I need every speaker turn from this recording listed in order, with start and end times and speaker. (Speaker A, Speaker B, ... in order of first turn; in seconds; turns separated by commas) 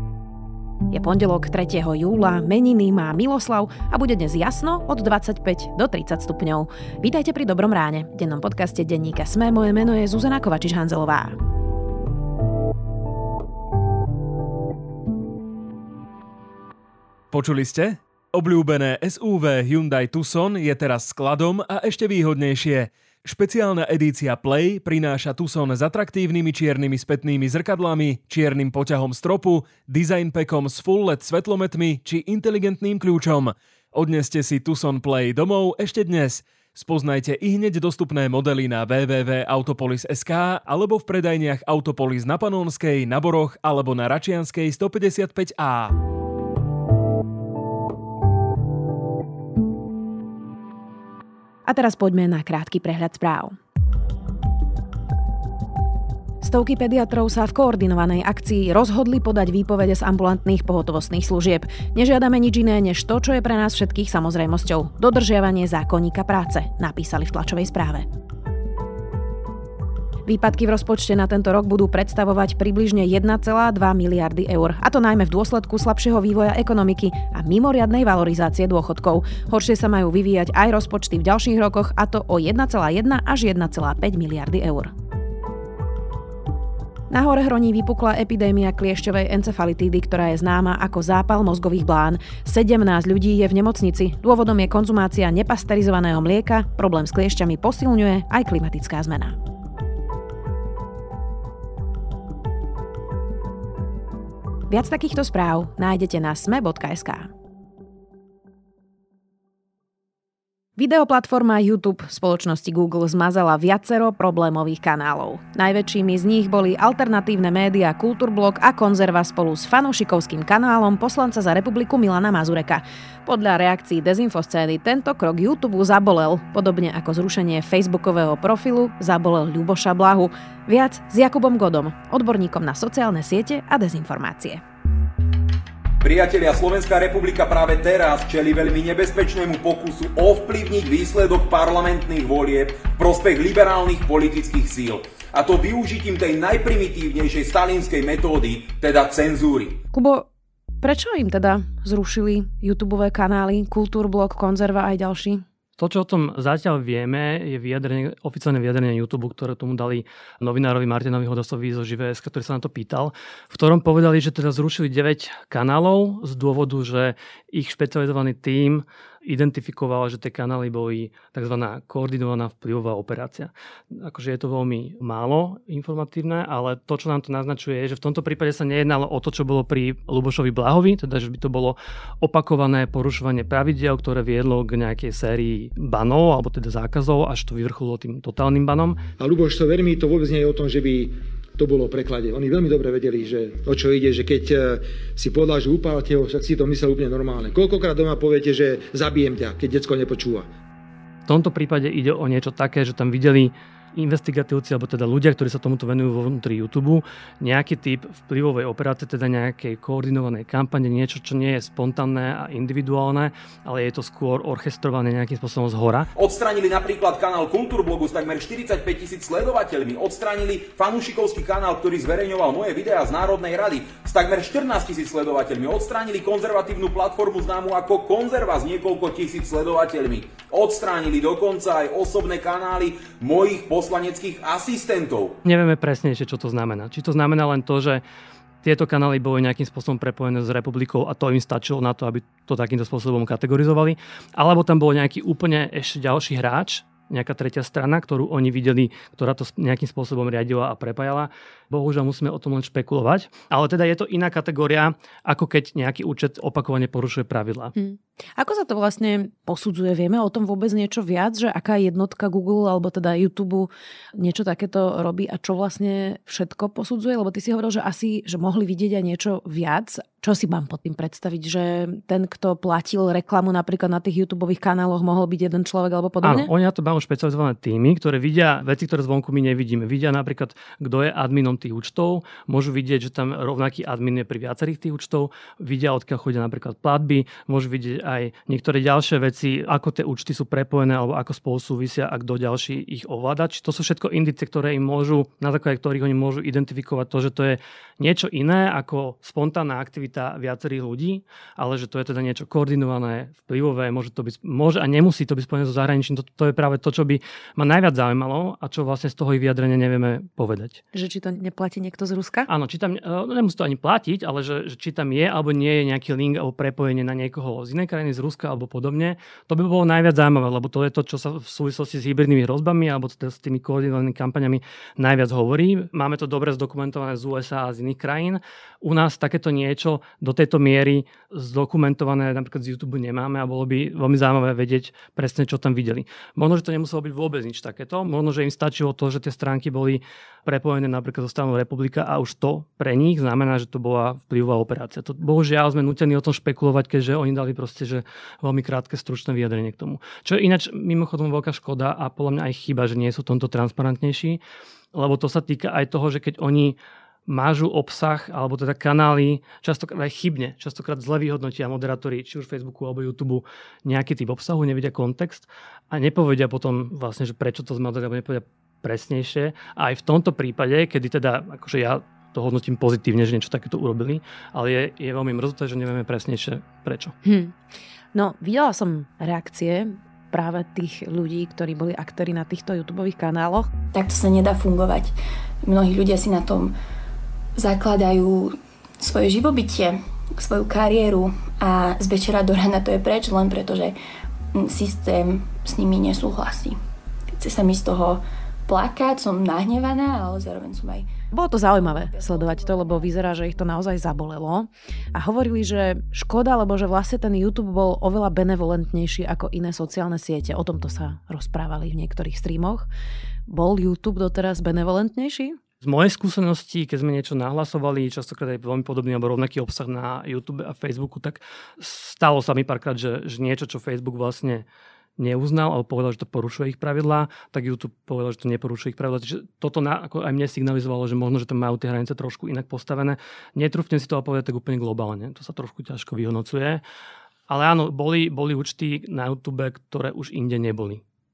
Speaker A: 0.9-11.4, Speaker B: 17.3-46.0, Speaker A: 51.7-53.6, Speaker A: 56.4-68.1, Speaker A: 70.3-84.9, Speaker A: 87.1-99.4, Speaker A: 104.7-107.3, Speaker A: 110.8-134.6, Speaker C: 136.0-149.8, Speaker A: 149.9-150.3, Speaker A: 150.8-155.4, Speaker D: 155.8-189.0, Speaker E: 189.2-200.5, Speaker D: 201.3-216.1, Speaker C: 216.2-235.4, Speaker D: 235.4-238.0, Speaker D: 238.6-257.7, Speaker A: 257.8-276.5, Speaker D: 276.2-310.8, Speaker A: 310.9-312.5, Speaker D: 312.5-354.4, Speaker D: 354.9-356.8, Speaker D: 357.3-377.1, Speaker A: 377.2-377.6, Speaker A: 378.1-383.7, Speaker F: 383.9-386.8, Speaker F: 387.6-394.0, Speaker F: 394.5-396.8, Speaker F: 397.4-401.1, Speaker A: 401.3-412.9, Speaker F: 402.1-403.0, Speaker A: 413.5-415.6, Speaker D: 415.8-424.6, Speaker D: 425.2-436.8, Speaker D: 437.5-441.0